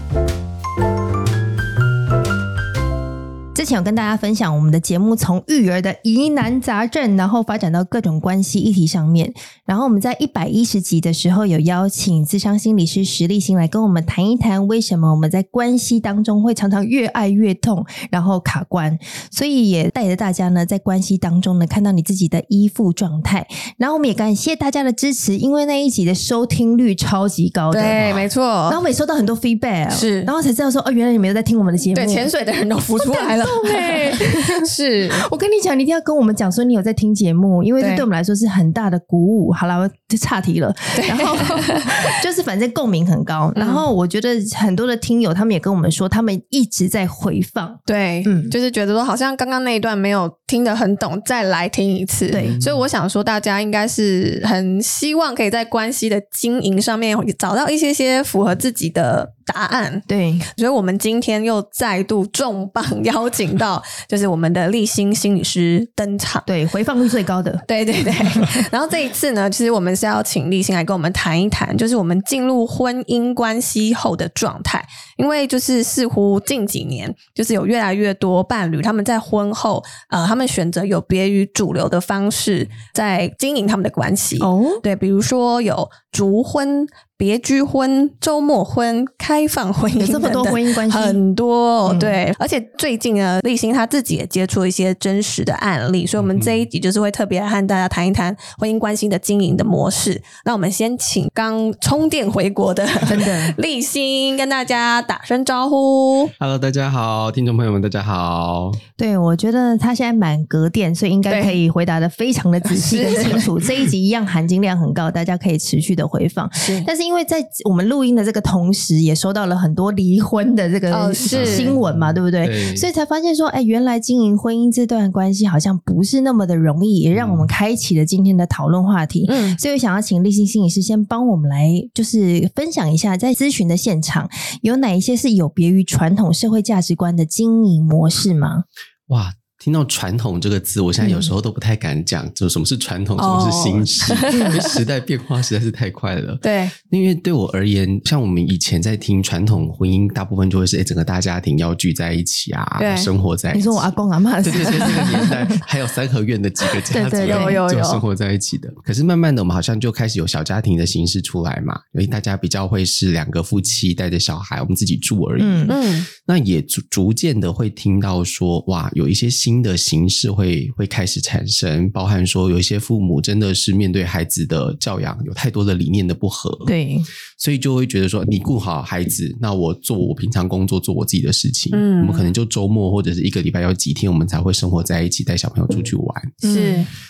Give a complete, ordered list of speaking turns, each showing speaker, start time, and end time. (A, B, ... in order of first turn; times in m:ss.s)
0:03.6-0:32.3 A
0:27.7-0:28.8 B
0:29.9-0:30.3 B
0:32.0-0:35.3 B
0:33.0-0:48.5 A
0:37.8-0:38.1 B
0:41.0-0:42.1 B
0:43.6-0:43.9 B
0:47.9-1:00.1 B
0:52.3-0:52.6 A
0:52.3-0:52.9 C
1:00.1-1:00.5 A
1:00.6-1:06.5 B
1:06.5-1:07.7 A
1:07.7-1:46.3 B
1:24.4-1:24.8 A
1:30.0-1:31.2 A
1:31.9-1:32.2 A
1:36.2-1:36.7 C
1:43.1-1:43.6 A
1:46.4-1:48.8 C
1:49.0-2:18.6 A
1:51.3-1:51.6 B
1:52.7-1:53.5 B
1:56.6-1:56.9 B
2:00.9-2:01.8 B
2:01.3-2:02.9 C
2:07.1-2:07.5 C
2:09.3-2:09.6 B
2:19.1-2:33.9 C
2:21.0-2:21.3 A
2:23.2-2:24.8 B
2:26.4-2:26.7 B
2:32.8-2:33.1 B
2:33.5-2:35.6 A
2:34.4-2:56.7 C
2:36.9-2:37.6 A
2:37.2-2:38.0 B
2:45.4-2:45.8 A
2:45.7-2:46.1 B
2:56.7-2:57.1 A
2:57.4-3:06.4 C
3:01.7-3:02.3 B
3:06.4-3:06.9 B
3:06.4-3:06.9 A